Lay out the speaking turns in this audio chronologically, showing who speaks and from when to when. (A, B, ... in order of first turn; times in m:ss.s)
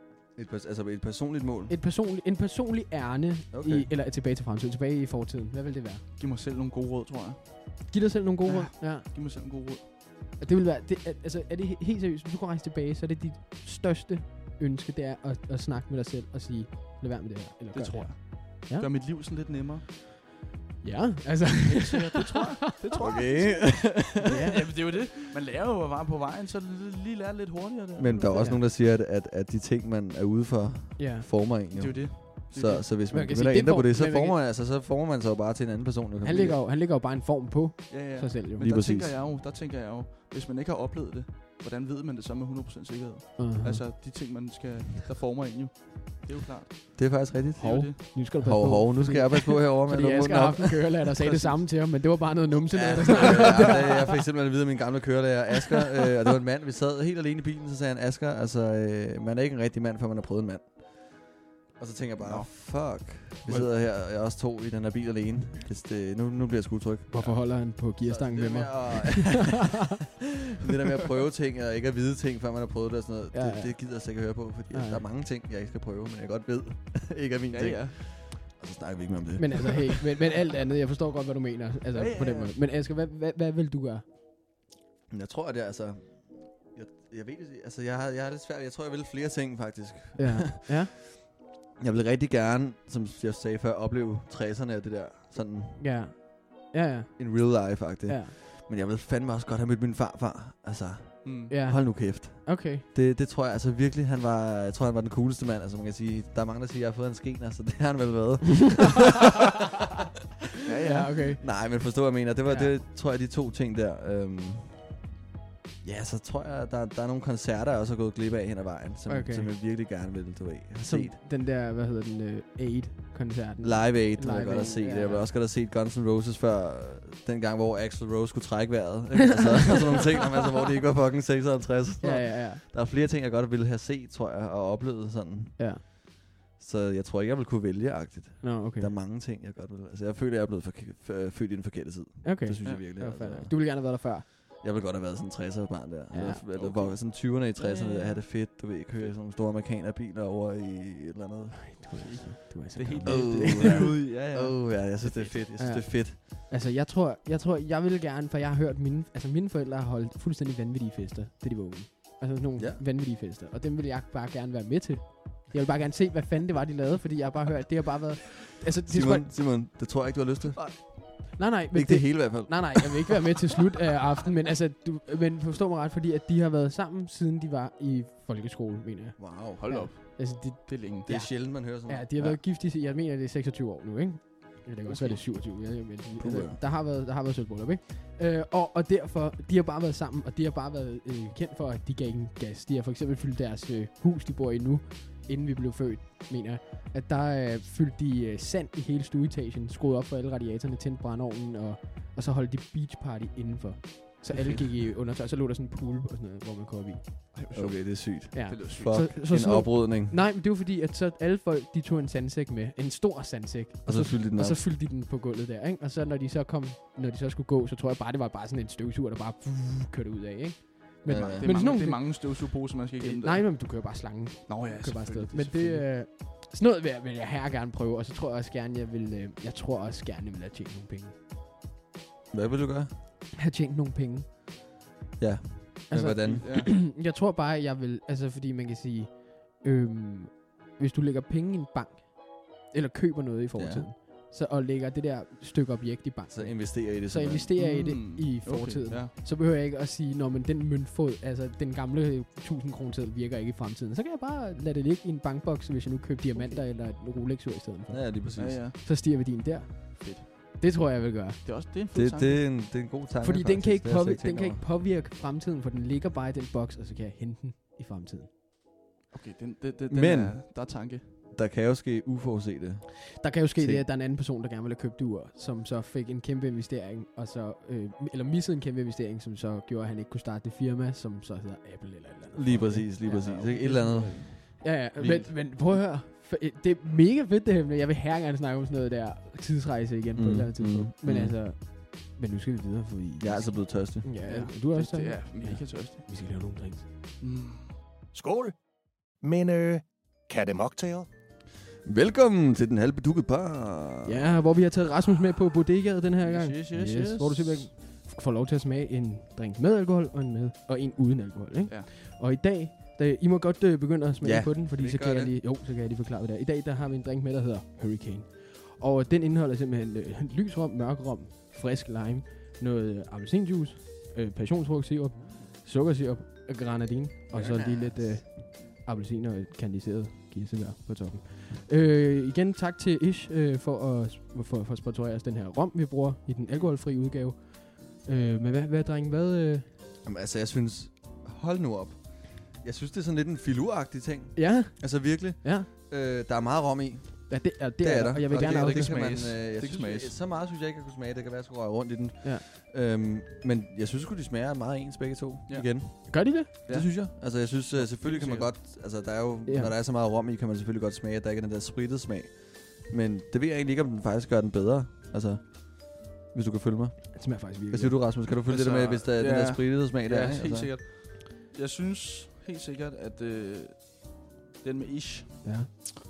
0:00.3-0:01.8 A
0:01.7-0:06.0 B
0:03.5-0:03.9 A
0:06.2-0:07.9 C
0:07.9-0:09.1 B
0:08.4-0:09.9 C
0:10.4-0:18.9 B
0:17.7-0:19.8 C
0:20.8-0:22.9 B
0:21.7-0:28.5 C
0:22.9-0:24.7 A
0:24.2-0:24.6 B
0:28.0-0:36.6 A
0:28.4-0:28.6 B
0:31.0-0:31.3 B
0:31.7-0:32.9 C
0:33.1-0:34.4 B
0:36.2-0:38.7 B
0:37.9-0:46.8 C
0:38.6-0:39.2 A
0:43.4-0:43.9 B
0:47.0-0:51.0 A
0:47.5-0:48.0 C
0:47.6-0:54.0 B
0:51.2-0:51.6 C
0:52.7-1:09.8 A
0:53.2-0:53.7 C
1:02.2-1:02.5 C
1:03.5-1:03.7 B
1:07.1-1:09.6 B
1:10.6-1:20.1 A
1:13.3-1:15.0 B
1:17.5-1:18.0 C
1:19.4-1:24.0 B
1:21.9-1:22.6 C
1:25.1-1:35.8 A
1:30.2-1:30.9 B
1:35.8-1:38.4 B
1:37.2-1:49.4 A
1:41.2-1:41.5 C
1:41.5-1:42.8 B
1:50.7-1:51.2 C
1:50.8-1:52.8 B
1:51.4-1:55.0 A
1:55.8-2:01.2 A
1:59.1-1:59.5 B
2:00.8-2:05.3 B
2:03.6-2:32.0 A
2:12.0-2:12.6 B
2:15.6-2:15.8 B
2:18.4-2:19.0 B
2:22.2-2:24.3 B
2:22.6-2:22.9 C
2:26.1-2:26.4 B
2:26.5-2:28.2 C
2:31.7-2:34.0 B
2:31.9-2:35.5 C
2:33.0-2:36.2 A
2:35.6-2:49.3 B
2:42.6-2:42.8 A
2:48.9-2:53.1 A
2:51.4-3:27.3 B
2:59.2-2:59.6 A
2:59.6-3:01.1 C
3:01.1-3:02.4 A
3:04.9-3:05.2 C
3:06.2-3:06.6 A
3:24.3-3:24.7 C
3:27.3-3:29.1 C
3:27.5-3:30.2 A
3:28.3-3:51.1 B
3:33.8-3:34.6 A
3:41.0-3:41.5 A
3:41.4-3:45.9 C
3:52.3-3:52.9 A
3:53.3-3:54.3 B
3:55.2-3:56.4 A
3:55.9-4:21.4 B
3:56.2-3:56.7 C
4:03.6-4:03.9 A
4:06.3-4:07.5 A
4:07.6-4:09.1 C
4:16.3-4:16.6 C
4:17.9-4:18.6 A
4:18.4-4:18.8 C
4:20.0-4:20.3 C
4:21.4-4:22.4 C
4:21.9-4:24.6 A
4:23.2-4:28.3 B
4:29.1-4:31.1 C
4:29.9-4:33.8 A
4:33.2-4:56.9 B
4:42.3-4:45.6 A
4:43.0-4:44.2 C
4:50.2-4:51.4 A
4:53.2-4:54.1 A
4:54.2-4:56.0 C
4:57.2-4:57.8 C
4:58.1-5:01.1 D
5:01.8-5:04.3 A
5:04.0-5:39.7 B
5:06.2-5:07.7 C
5:14.2-5:15.4 A
5:27.3-5:27.9 C
5:27.4-5:27.9 A
5:40.0-6:10.7 A
5:44.4-5:45.7 B
5:47.3-5:48.9 B
5:48.4-5:50.1 C
5:55.5-5:55.8 C
5:56.1-5:56.5 B
5:56.7-5:58.5 C
5:59.4-5:59.7 B
6:07.1-6:08.0 B
6:08.3-6:15.9 C
6:15.4-6:15.7 B